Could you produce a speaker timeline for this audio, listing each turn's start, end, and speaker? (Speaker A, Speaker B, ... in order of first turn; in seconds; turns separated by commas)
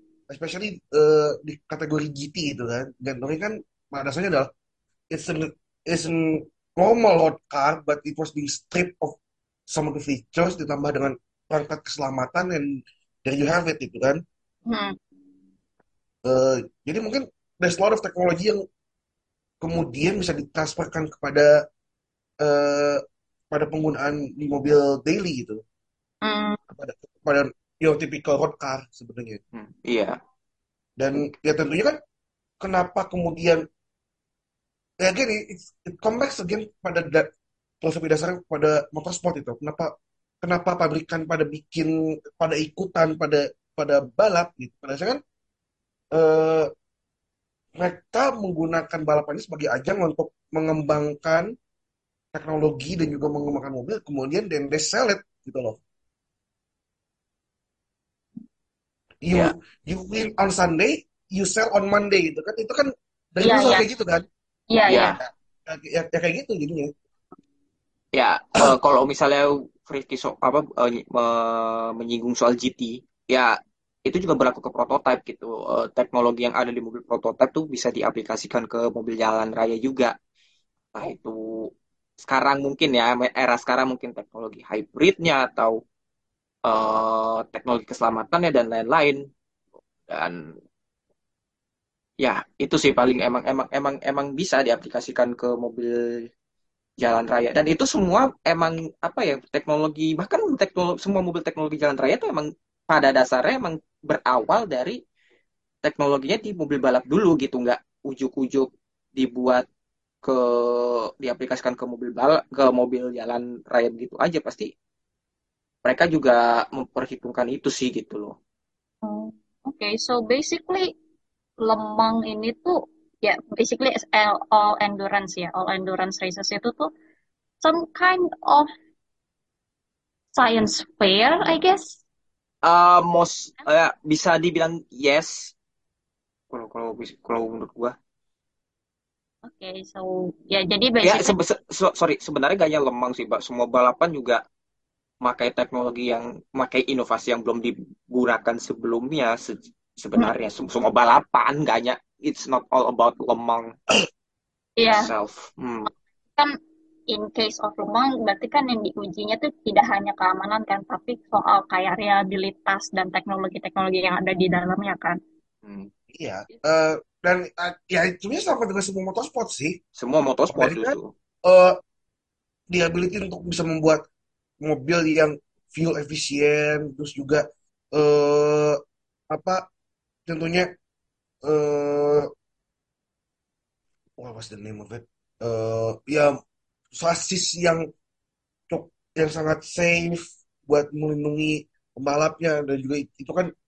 Speaker A: 0.3-4.5, Speaker A: 5.1-9.2, Speaker A: 9.7-14.2, Speaker B: 14.7-14.9, Speaker A: 16.2-18.6, Speaker A: 19.6-21.5, Speaker A: 22.4-25.6, Speaker B: 26.2-26.6, Speaker A: 26.7-29.4, Speaker C: 29.5-30.2, Speaker A: 31.0-32.0, Speaker A: 32.6-33.6, Speaker A: 35.0-37.3, Speaker A: 37.8-39.9, Speaker A: 40.4-45.2, Speaker A: 46.1-46.7, Speaker A: 47.8-51.5, Speaker A: 52.3-55.8, Speaker A: 59.2-64.3, Speaker B: 63.4-63.8, Speaker B: 64.7-65.2, Speaker C: 64.9-65.2, Speaker A: 65.7-66.9, Speaker C: 68.1-80.1, Speaker C: 80.9-81.7, Speaker C: 82.2-85.8, Speaker C: 86.7-89.2, Speaker C: 90.1-90.4, Speaker C: 92.2-96.3, Speaker C: 97.0-105.0, Speaker C: 105.8-109.7, Speaker C: 110.2-114.7, Speaker C: 115.8-118.3, Speaker B: 119.0-120.9, Speaker B: 121.6-126.9, Speaker B: 127.6-128.7, Speaker B: 130.4-132.0, Speaker C: 132.6-135.5, Speaker C: 136.5-137.9, Speaker B: 139.4-141.3, Speaker C: 141.0-144.4, Speaker C: 145.2-153.7, Speaker B: 154.8-155.1, Speaker C: 154.9-155.9, Speaker B: 157.1-165.2, Speaker C: 165.7-165.9, Speaker A: 166.1-169.8, Speaker C: 170.0-171.1, Speaker A: 170.5-171.7, Speaker A: 172.7-174.0, Speaker A: 174.6-178.8, Speaker A: 179.3-179.6, Speaker A: 180.3-180.7, Speaker A: 181.4-182.3, Speaker A: 184.2-186.3, Speaker A: 186.9-187.8, Speaker A: 188.7-193.5